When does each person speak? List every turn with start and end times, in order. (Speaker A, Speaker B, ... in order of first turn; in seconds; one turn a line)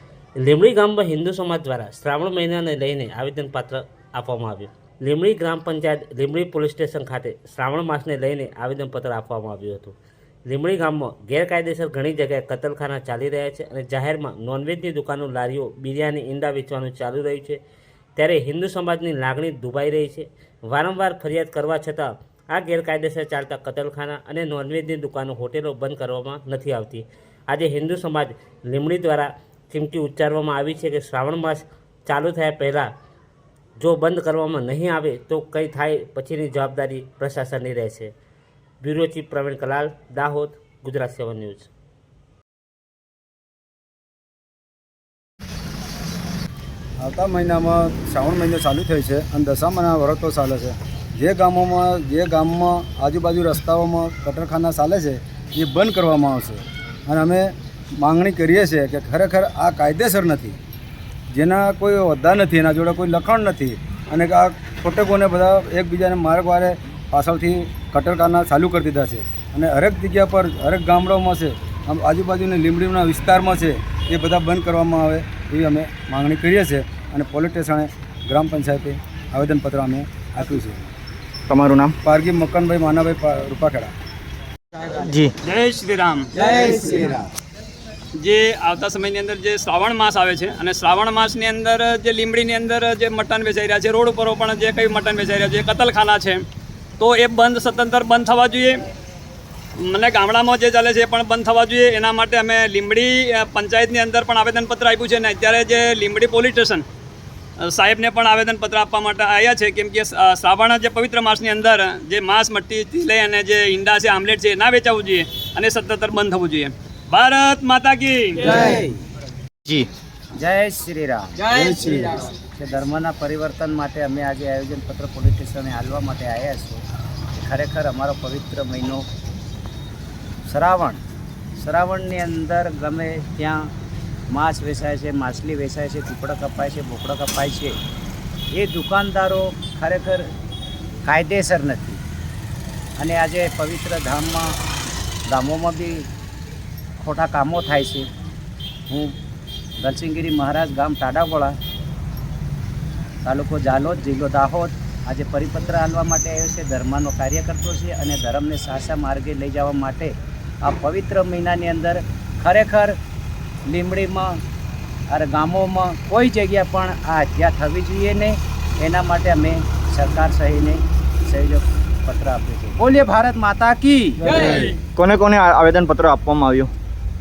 Speaker A: 0.4-10.0
Speaker A: 10.5-17.6
Speaker A: 18.2-32.9
Speaker A: 33.8-38.1
Speaker A: 38.8-41.7
Speaker B: 47.0-60.5
Speaker B: 61.3-80.9
Speaker C: 81.5-82.0
Speaker B: 82.0-83.9
Speaker C: 85.0-85.3
Speaker D: 85.4-87.1
Speaker D: 88.2-96.4
Speaker D: 97.0-98.8
Speaker D: 99.8-106.8
Speaker D: 107.6-118.8
Speaker E: 120.4-121.5
Speaker B: 121.5-122.2
Speaker E: 122.4-126.8
Speaker E: 127.4-129.1
Speaker E: 130.5-131.0
Speaker E: 131.6-133.7
Speaker E: 134.3-137.8
Speaker E: 138.5-140.3
Speaker E: 141.1-142.0
Speaker E: 143.0-144.5
Speaker E: 145.3-146.1
Speaker E: 147.0-148.1
Speaker E: 148.9-149.1
Speaker E: 149.8-151.6
Speaker E: 153.2-163.0
Speaker E: 163.7-164.4
Speaker E: 165.1-174.5
Speaker B: 174.2-174.5
Speaker C: 174.5-176.7